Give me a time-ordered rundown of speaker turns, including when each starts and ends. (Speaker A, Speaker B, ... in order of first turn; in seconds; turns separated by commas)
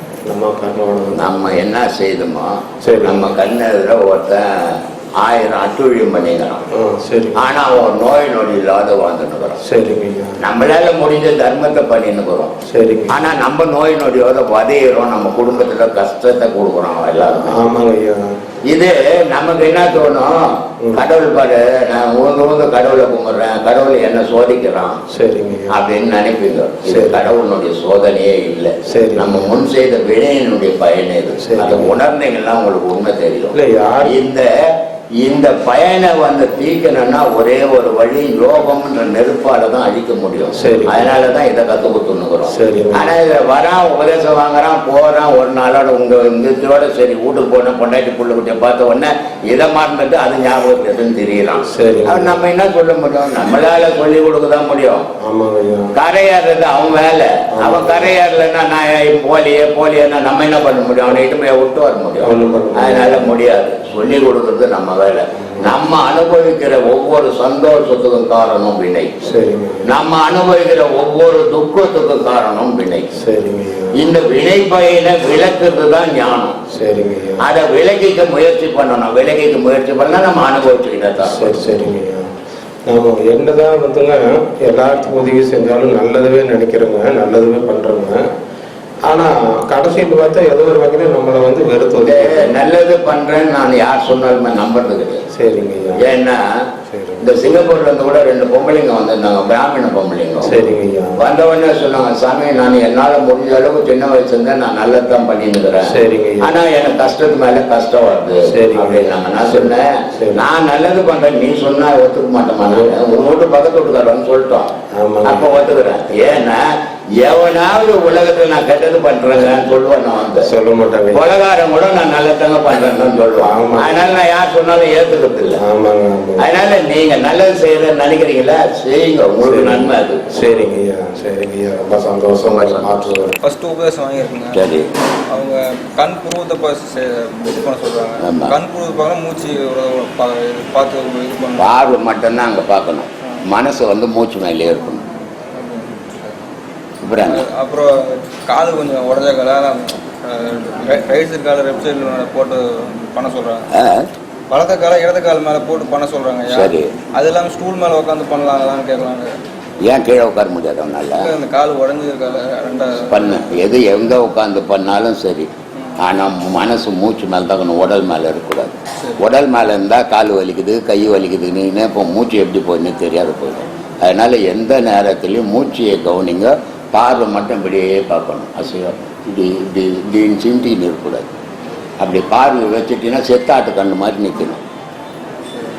Speaker A: 0.3-1.5, Speaker B: 1.1-6.6, Speaker A: 2.8-3.3, Speaker A: 6.7-7.4, Speaker B: 7.3-9.6, Speaker A: 9.6-10.3, Speaker B: 10.4-12.5, Speaker A: 12.7-13.2, Speaker B: 13.1-17.6, Speaker A: 17.4-18.2, Speaker B: 18.7-25.0, Speaker A: 25.1-25.8, Speaker B: 25.7-34.5, Speaker A: 26.9-27.3, Speaker A: 28.9-29.5, Speaker A: 31.4-32.0, Speaker A: 33.5-34.2, Speaker B: 35.2-55.0, Speaker A: 40.5-41.1, Speaker A: 42.5-43.1, Speaker A: 51.7-52.4, Speaker A: 55.2-55.9, Speaker B: 55.9-69.1, Speaker A: 57.5-58.1, Speaker A: 62.2-63.3, Speaker A: 65.4-65.8, Speaker A: 69.2-69.9, Speaker B: 69.8-73.2, Speaker A: 73.2-74.0, Speaker B: 74.0-76.5, Speaker A: 76.7-77.4, Speaker B: 77.4-81.6, Speaker A: 81.2-82.2, Speaker A: 82.8-88.2, Speaker A: 89.0-92.5, Speaker B: 92.0-95.2, Speaker A: 95.3-96.0, Speaker B: 96.0-96.4, Speaker A: 96.9-97.3, Speaker B: 97.2-100.6, Speaker A: 100.4-101.2, Speaker B: 101.2-114.7, Speaker A: 105.8-106.5, Speaker A: 108.5-110.4, Speaker A: 114.9-115.5, Speaker B: 115.2-116.7, Speaker B: 117.2-120.5, Speaker A: 120.4-121.2, Speaker B: 121.1-125.6, Speaker A: 123.3-124.0, Speaker A: 125.6-126.5, Speaker B: 126.4-130.2, Speaker A: 129.4-133.3, Speaker B: 132.4-133.1, Speaker C: 133.4-134.6, Speaker B: 134.5-134.9, Speaker C: 135.3-141.7, Speaker B: 138.2-138.6, Speaker B: 141.6-145.1, Speaker C: 145.5-146.4, Speaker B: 147.0-147.4, Speaker C: 147.2-153.7, Speaker B: 153.8-154.1, Speaker C: 154.5-159.4, Speaker B: 156.5-156.9, Speaker B: 159.8-161.3, Speaker C: 161.1-163.5, Speaker B: 163.1-165.5, Speaker B: 166.0-181.3, Speaker B: 182.0-184.6